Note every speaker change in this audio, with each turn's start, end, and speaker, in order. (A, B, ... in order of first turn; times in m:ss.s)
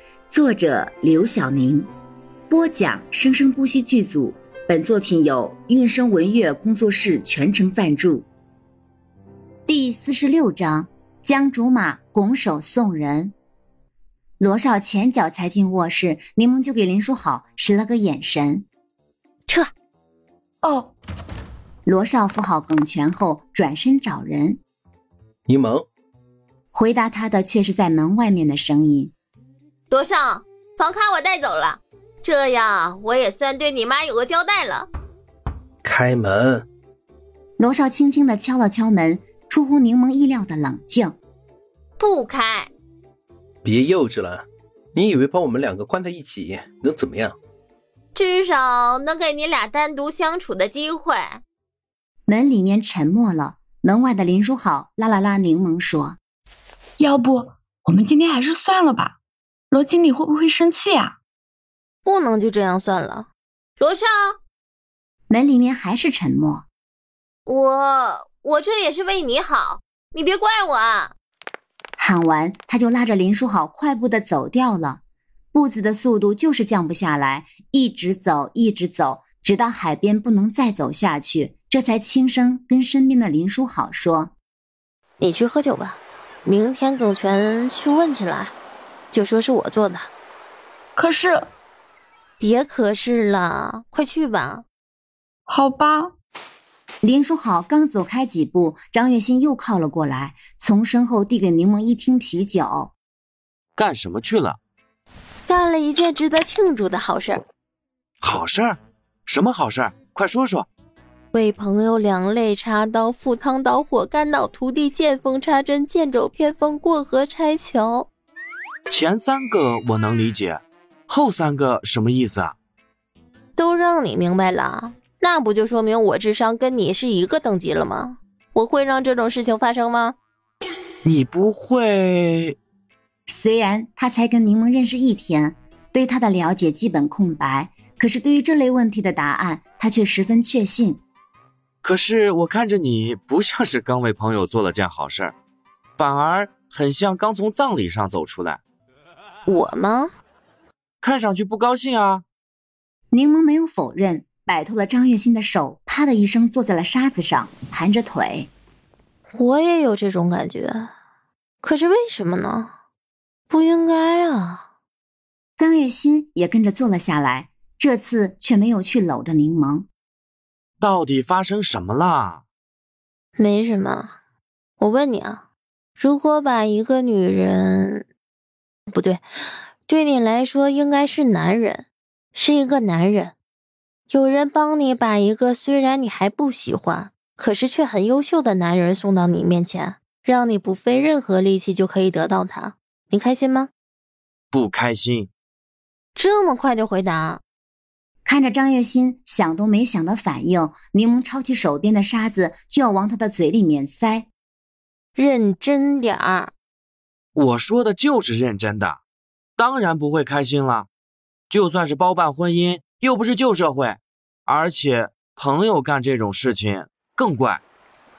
0:00.3-0:01.9 A
0:02.5-0:08.3 A
0:09.7-0:13.3 A
0:14.4-0:18.7 A
0:20.6-0:20.9 B
0:21.9-0:24.6 A
0:25.5-0:25.9 C
0:26.7-0:29.1 A
0:29.9-0:34.9 D
0:35.8-0:36.7 C
0:37.6-0:41.2 A
0:42.0-0:42.7 D
0:43.6-0:47.4 C
0:48.1-0:51.4 D
0:52.3-0:56.2 A
0:57.0-0:59.2 B
0:59.7-1:01.2 B
1:02.0-1:03.3 D
1:03.8-1:04.4 D
1:05.3-1:06.7 A
1:07.5-1:11.1 D
1:12.0-1:15.0 A
1:15.5-1:24.3 A
1:25.2-1:28.6 D
1:29.1-1:30.1 D
1:31.0-1:31.5 B
1:32.4-1:34.6 D
1:35.5-1:36.1 B
1:37.0-1:42.9 A
1:43.8-1:44.6 E
1:45.5-1:47.4 D
1:48.2-1:50.7 E
1:51.3-1:58.1 D
1:58.9-2:02.6 E
2:03.6-2:10.2 D
2:11.0-2:12.6 E
2:13.3-2:21.0 A
2:21.8-2:25.3 E
2:26.0-2:28.6 E
2:29.5-2:30.1 D
2:31.0-2:32.2 E
2:33.1-2:38.5 A
2:39.4-2:40.9 D
2:41.6-2:42.7 D
2:43.5-2:44.6 D
2:45.6-2:49.9 A
2:50.8-2:52.4 E
2:53.4-2:54.1 D
2:54.8-2:55.4 D
2:56.0-2:58.0 D
2:58.9-2:59.2 D
2:59.9-3:03.3 D
3:04.1-3:13.7 D
3:14.5-3:15.3 E
3:16.2-3:17.4 D
3:18.2-3:24.3 A
3:25.2-3:26.5 D
3:27.3-3:29.0 E
3:29.6-3:30.9 E
3:31.5-3:37.6 E